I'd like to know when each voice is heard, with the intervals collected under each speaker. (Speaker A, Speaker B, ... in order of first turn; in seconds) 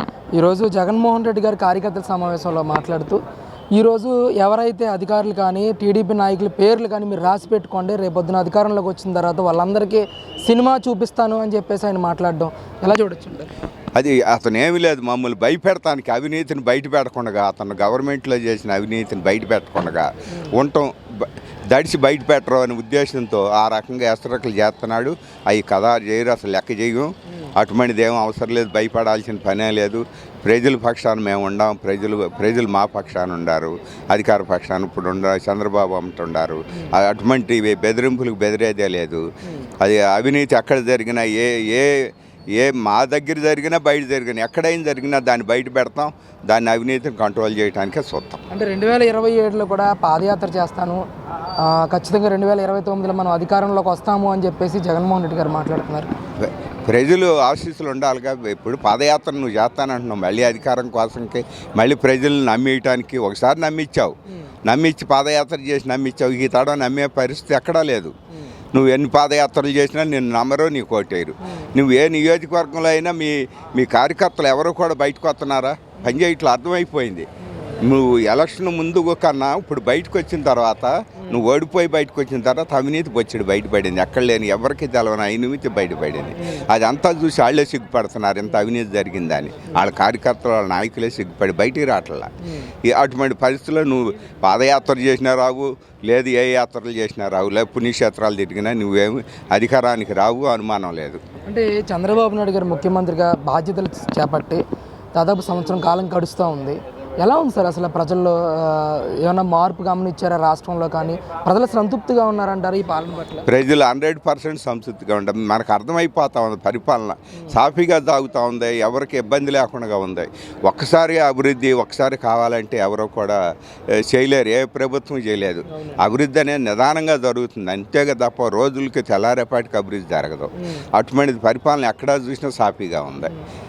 Speaker A: 0.3-3.2, 3.7-13.5, 48.5-51.0, 51.6-56.1, 101.5-104.6, 105.2-113.5
Speaker B: 13.9-39.2, 39.8-48.4, 56.4-68.1, 68.7-77.3, 77.8-92.3, 92.8-101.2, 113.5-133.3